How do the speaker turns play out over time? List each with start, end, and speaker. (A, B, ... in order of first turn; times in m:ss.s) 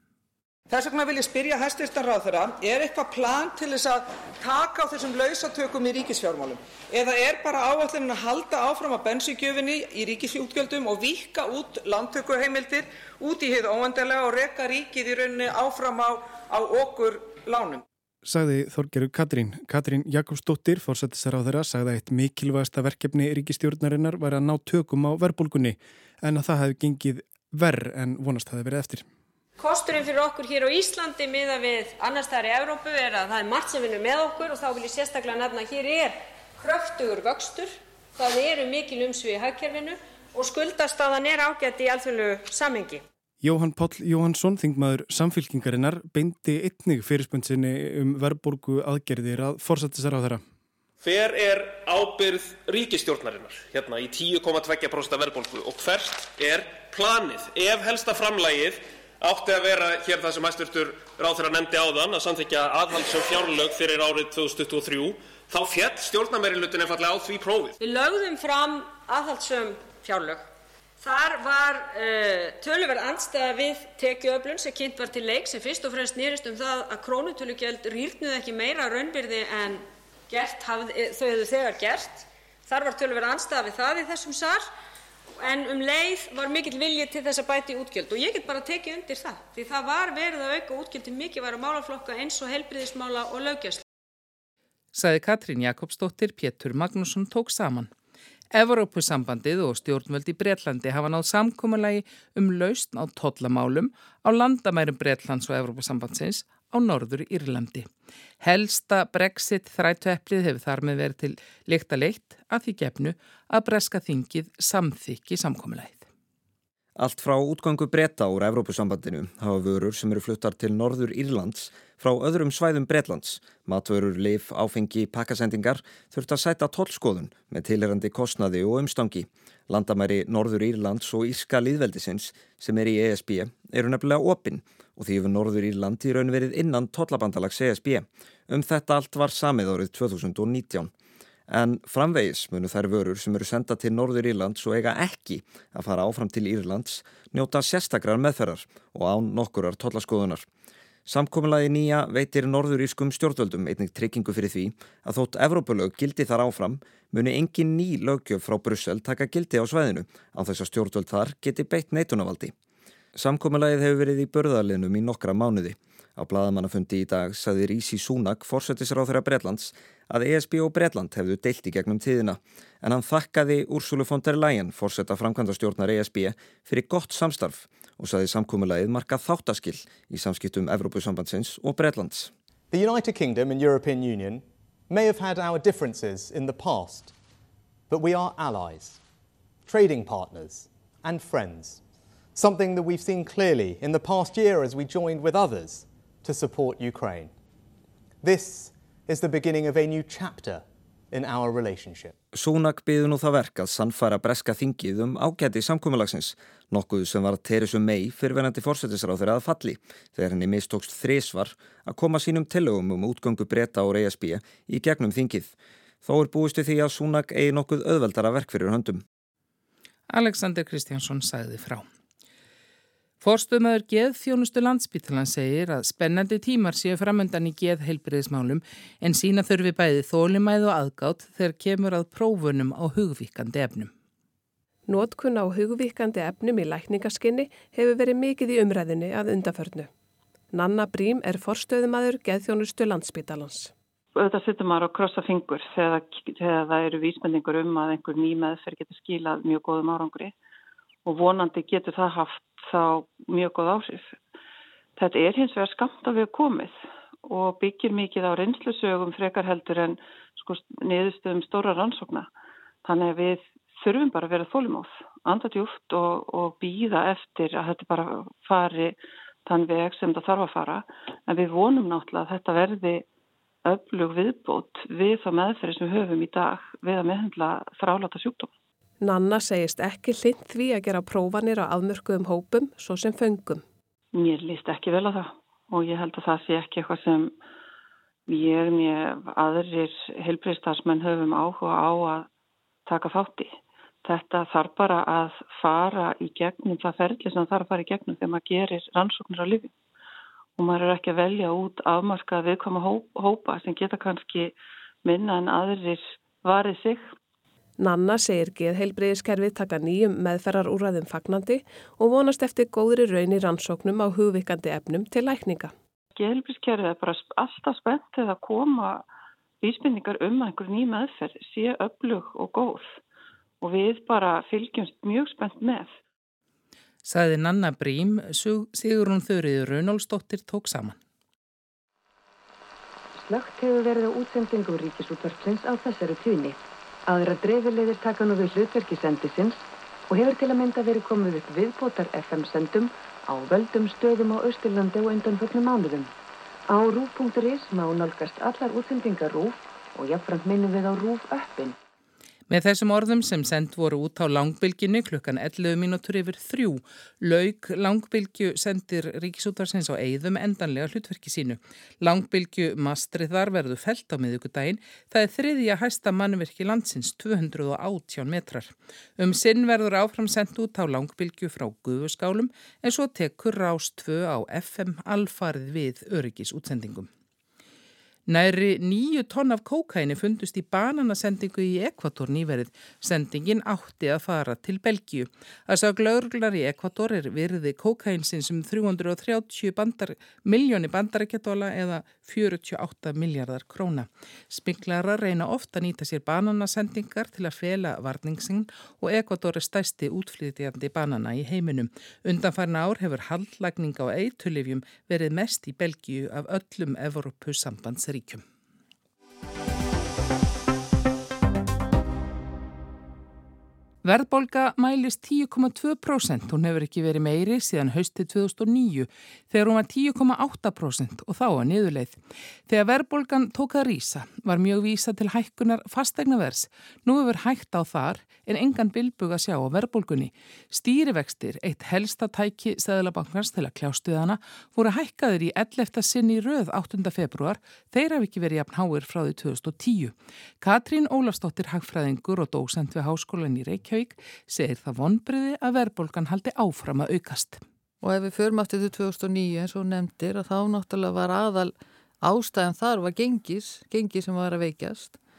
0:00.7-0:17.8 A
0:18.2-0:29.1 B
0:29.6-0:43.0 C
0:43.4-0:50.4 B
0:51.0-1:07.8 D
1:07.8-1:10.4 C
1:11.0-1:24.7 C
1:25.4-1:33.8 C
1:34.9-1:37.9 E
1:38.5-1:47.9 E
1:48.4-1:56.1 E
1:57.0-2:20.9 F
2:21.5-2:30.5 F
2:31.0-2:42.5 F
2:43.2-3:02.3 F
3:02.7-3:07.1 G
3:07.9-3:09.0 G
3:09.7-3:11.8 G
3:12.3-3:17.3 G
3:18.2-3:22.2 G
3:22.3-3:39.0 F
3:40.1-3:41.8 E
3:43.2-3:53.9 E
3:54.9-3:59.9 H
4:00.5-4:03.7 H
4:04.2-4:10.3 I
4:11.0-4:14.2 I
4:15.0-4:22.3 I
4:22.8-4:33.0 I
4:33.6-4:38.5 I
4:39.0-4:43.6 H
4:44.2-4:47.4 I
4:48.3-4:52.3 I
4:52.9-4:59.7 I
5:00.6-5:07.1 I
5:07.8-5:15.7 H
5:16.1-5:19.0 I
5:19.6-5:23.0 I
5:23.6-5:25.9 I
5:27.0-5:31.0 E
5:33.2-5:46.1 J
5:46.7-5:51.8 J
5:52.5-6:17.1 E
6:18.3-6:48.4 E
6:54.0-7:27.6 E
7:28.0-7:35.2 K